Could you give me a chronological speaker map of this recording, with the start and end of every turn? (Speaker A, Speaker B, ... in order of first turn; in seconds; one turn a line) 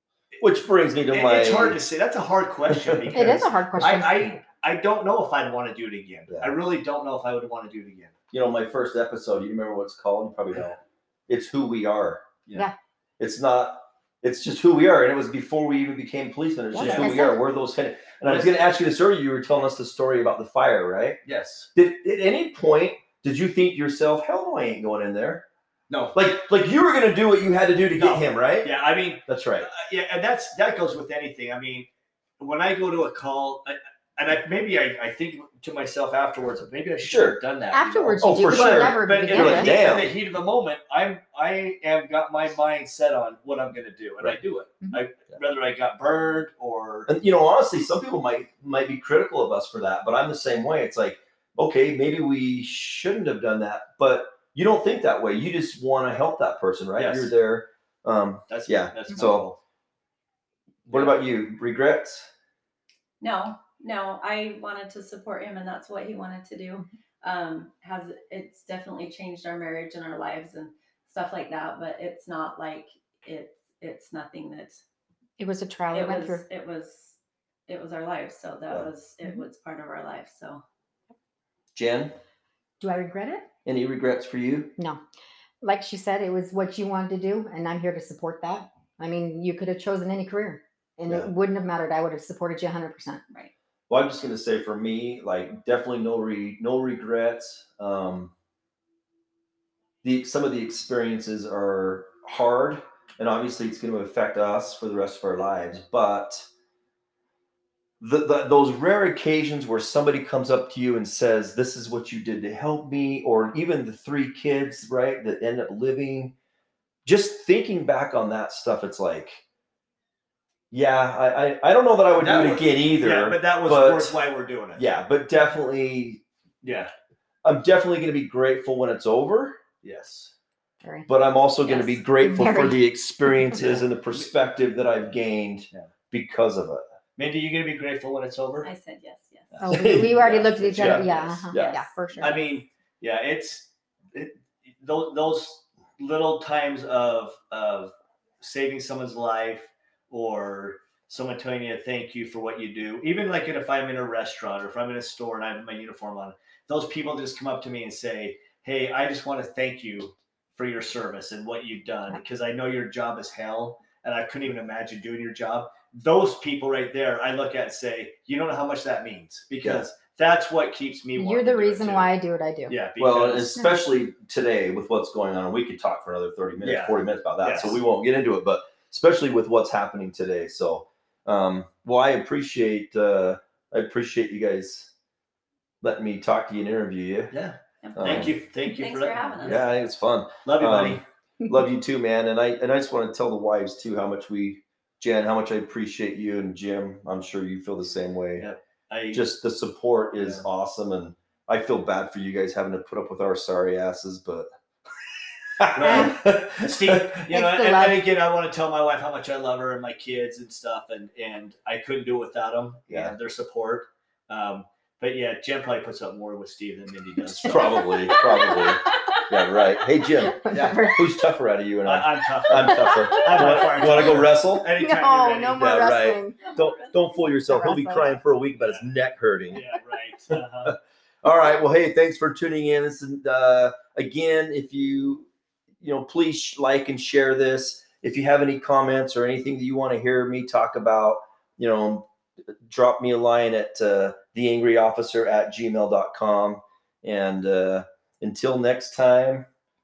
Speaker A: 0.4-1.8
Speaker B: 1.1-8.1
Speaker A: 2.7-3.2
Speaker C: 3.1-4.3
Speaker A: 6.3-6.5
Speaker A: 8.3-12.2
Speaker A: 13.2-21.2
Speaker C: 16.7-17.4
Speaker B: 16.8-17.3
Speaker B: 18.2-18.5
Speaker B: 21.2-21.7
Speaker A: 21.7-25.4
Speaker B: 25.9-26.1
Speaker A: 26.1-28.7
Speaker B: 28.0-31.9
Speaker A: 29.2-29.7
Speaker B: 32.4-47.1
Speaker A: 37.0-37.4
Speaker C: 37.7-39.8
Speaker A: 38.2-40.1
Speaker A: 47.1-59.5
Speaker B: 57.0-57.3
Speaker B: 58.5-59.6
Speaker A: 60.9-62.3
Speaker B: 60.9-61.2
Speaker D: 63.2-74.8
Speaker C: 75.4-76.4
Speaker D: 75.9-77.2
Speaker D: 77.7-80.6
Speaker A: 81.7-82.1
Speaker C: 82.8-83.5
Speaker A: 83.6-84.7
Speaker C: 85.6-93.2
Speaker A: 93.9-98.3
Speaker A: 100.0-106.5
Speaker A: 108.0-116.3
Speaker A: 117.0-119.4
Speaker A: 120.7-124.2
Speaker B: 122.2-124.8
Speaker A: 124.8-126.2
Speaker B: 126.6-126.9
Speaker A: 127.4-129.6
Speaker B: 129.8-130.3
Speaker A: 131.1-136.8
Speaker C: 131.7-133.6
Speaker B: 133.6-134.3
Speaker B: 137.2-138.7
Speaker D: 138.6-139.6
Speaker A: 139.6-141.8
Speaker C: 139.6-142.4
Speaker B: 139.8-141.4
Speaker D: 141.5-142.4
Speaker B: 142.2-172.1
Speaker C: 171.2-172.7
Speaker B: 172.7-173.5
Speaker A: 173.0-184.9
Speaker B: 176.6-177.8
Speaker A: 185.8-187.3
Speaker B: 187.3-189.6
Speaker D: 187.8-189.7
Speaker A: 187.9-188.3
Speaker A: 189.4-198.5
Speaker B: 190.4-191.0
Speaker B: 198.4-199.2
Speaker A: 199.1-204.5
Speaker B: 200.2-200.4
Speaker A: 205.6-207.2
Speaker B: 205.7-217.8
Speaker C: 205.8-206.1
Speaker C: 207.3-208.0
Speaker C: 217.3-218.7
Speaker A: 217.4-224.7
Speaker D: 218.2-218.7
Speaker C: 220.2-221.1
Speaker B: 221.8-225.8
Speaker C: 222.8-224.1
Speaker C: 224.7-226.6
Speaker A: 225.6-229.6
Speaker D: 226.4-226.7
Speaker C: 227.5-228.2
Speaker B: 228.6-228.8
Speaker B: 229.5-230.7
Speaker A: 230.6-235.3
Speaker A: 235.8-242.1
Speaker A: 242.7-249.5